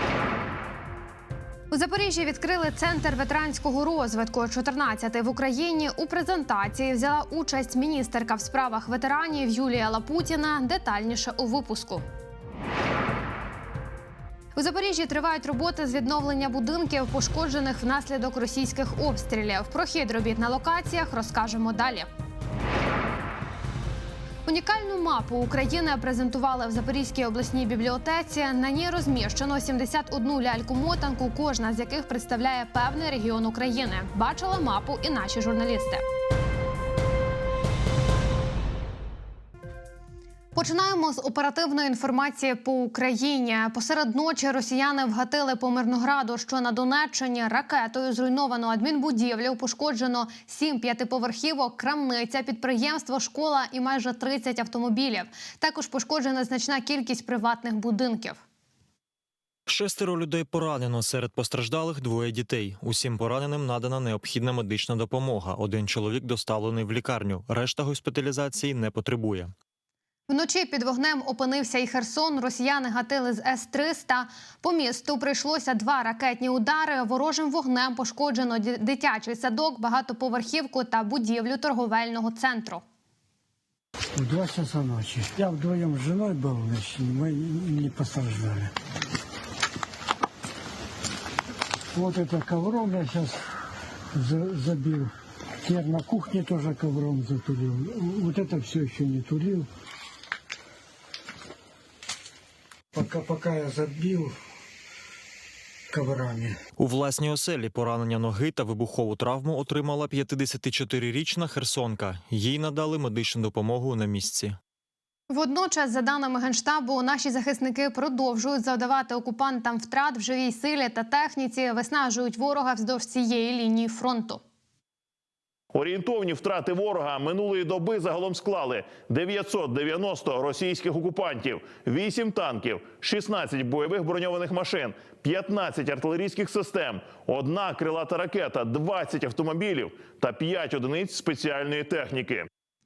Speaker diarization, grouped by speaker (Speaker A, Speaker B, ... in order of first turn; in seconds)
Speaker A: 1.7-12.0, 14.6-22.1, 24.4-36.0, 40.5-58.4, 70.3-82.8, 115.3-124.4
Speaker B: 59.7-69.5, 106.8-114.5
Speaker C: 84.1-88.7, 91.9-93.3, 94.1-99.7, 102.9-104.3, 105.9-106.6
Speaker D: 125.7-142.4